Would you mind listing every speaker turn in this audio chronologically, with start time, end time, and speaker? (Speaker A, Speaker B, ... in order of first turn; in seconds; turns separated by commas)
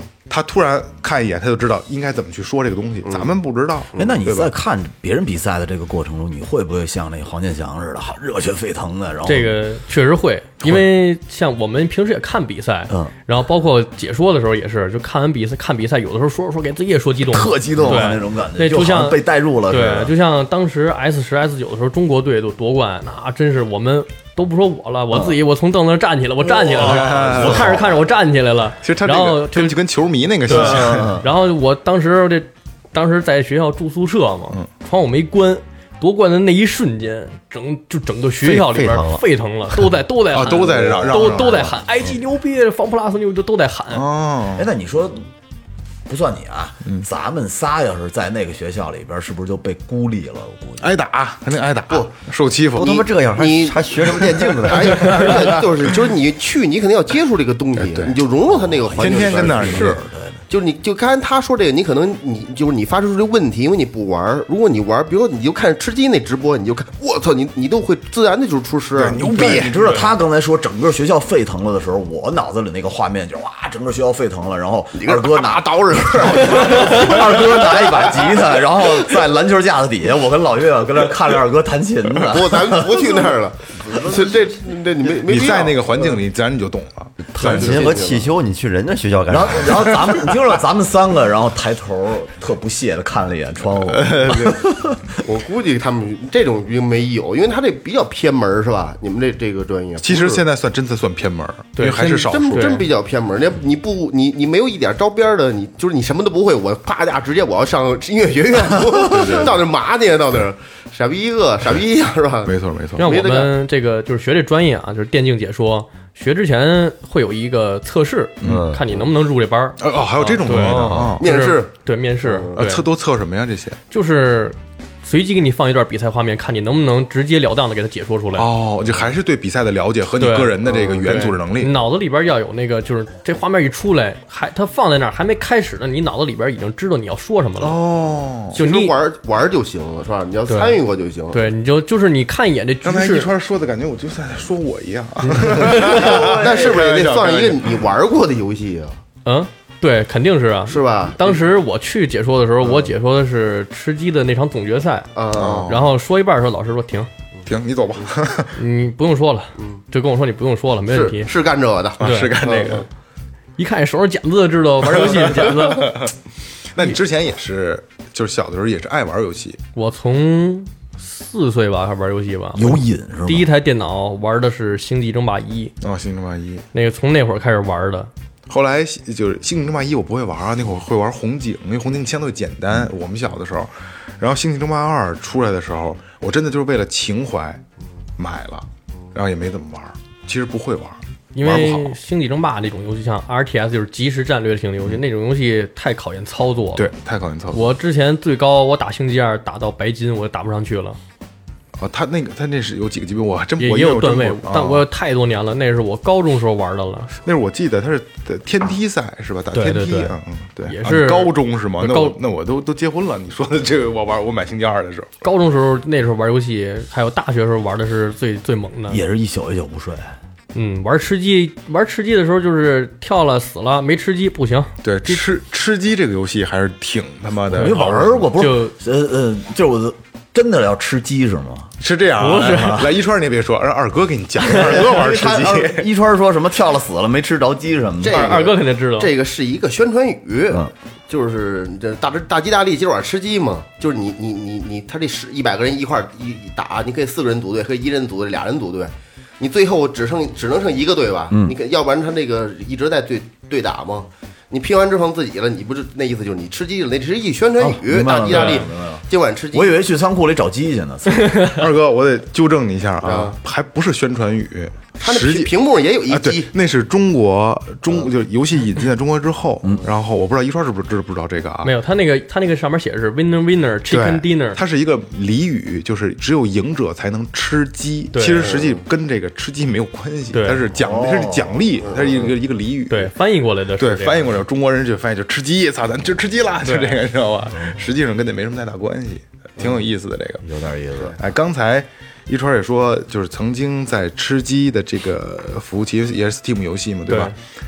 Speaker A: 0.3-4.5, Speaker B: 3.1-3.4, Speaker B: 3.9-4.2, Speaker C: 4.0-9.6, Speaker D: 9.2-29.8, Speaker C: 17.3-20.1, Speaker C: 26.6-27.9, Speaker A: 26.7-27.9, Speaker A: 28.8-31.2, Speaker D: 30.5-44.0, Speaker C: 30.5-31.2, Speaker E: 38.4-39.2, Speaker A: 40.3-41.7, Speaker A: 43.9-44.7, Speaker C: 44.5-45.3, Speaker C: 46.1-51.0, Speaker A: 50.8-53.1, Speaker E: 52.7-55.6, Speaker B: 53.3-70.0, Speaker A: 55.3-55.6, Speaker C: 58.5-60.4, Speaker A: 59.0-60.0, Speaker A: 69.0-70.0, Speaker C: 69.2-83.4, Speaker B: 74.9-78.6, Speaker B: 82.2-86.2, Speaker A: 85.2-87.9, Speaker E: 87.3-90.0, Speaker B: 87.4-88.3, Speaker C: 87.4-88.0, Speaker C: 89.3-95.2, Speaker A: 93.8-94.6, Speaker B: 95.2-100.4, Speaker A: 100.0-102.8, Speaker D: 101.8-102.9, Speaker B: 102.0-113.5, Speaker A: 109.0-109.6, Speaker A: 112.5-113.1, Speaker D: 113.0-122.8, Speaker A: 118.4-118.7, Speaker E: 118.4-118.8, Speaker A: 119.8-121.2, Speaker E: 120.5-121.2, Speaker B: 121.2-121.7, Speaker B: 122.2-122.6, Speaker A: 122.5-123.8, Speaker D: 123.9-128.5, Speaker A: 128.3-131.7, Speaker D: 130.2-137.8, Speaker B: 130.7-131.1, Speaker A: 137.6-138.6, Speaker D: 138.5-138.9, Speaker B: 138.5-141.5, Speaker D: 140.5-143.3, Speaker A: 142.8-147.8, Speaker D: 145.2-146.3, Speaker B: 145.6-149.0, Speaker D: 149.2-155.1, Speaker B: 150.7-151.4, Speaker B: 152.6-152.9, Speaker B: 155.1-155.7, Speaker A: 155.3-155.9, Speaker D: 155.6-157.1, Speaker A: 157.4-158.6, Speaker D: 158.5-161.3, Speaker B: 160.9-162.9, Speaker A: 162.0-162.9, Speaker D: 162.0-162.4, Speaker D: 163.6-166.0, Speaker A: 164.8-166.1, Speaker A: 166.7-169.6, Speaker D: 169.7-175.7, Speaker C: 172.5-173.5, Speaker A: 175.8-176.6, Speaker D: 176.7-178.1, Speaker A: 178.5-187.6, Speaker A: 188.2-192.0, Speaker D: 191.3-196.9, Speaker A: 196.7-197.7, Speaker D: 197.5-201.0, Speaker A: 201.7-204.8, Speaker D: 203.6-207.1, Speaker A: 207.2-215.1, Speaker D: 209.5-212.2, Speaker D: 215.2-219.0, Speaker C: 218.9-220.1, Speaker D: 220.5-225.3, Speaker A: 224.8-228.3, Speaker C: 227.5-231.8, Speaker D: 227.5-228.7, Speaker A: 231.8-235.9, Speaker D: 232.2-232.8, Speaker C: 232.4-232.9, Speaker C: 234.5-238.5, Speaker B: 238.0-259.8, Speaker D: 238.1-239.1, Speaker C: 251.3-251.6, Speaker C: 257.6-261.4, Speaker D: 258.3-258.6, Speaker D: 261.2-261.5, Speaker A: 261.4-265.5, Speaker B: 263.0-263.4, Speaker B: 265.0-266.5, Speaker A: 266.1-271.7, Speaker D: 271.6-274.6, Speaker A: 273.9-283.1, Speaker D: 278.1-278.5, Speaker B: 278.4-278.8, Speaker D: 280.3-280.6, Speaker C: 280.7-281.6, Speaker B: 281.9-282.3, Speaker D: 282.9-284.4, Speaker A: 283.8-290.4, Speaker D: 286.6-287.0, Speaker C: 290.4-291.1, Speaker A: 291.2-297.4, Speaker D: 297.1-297.3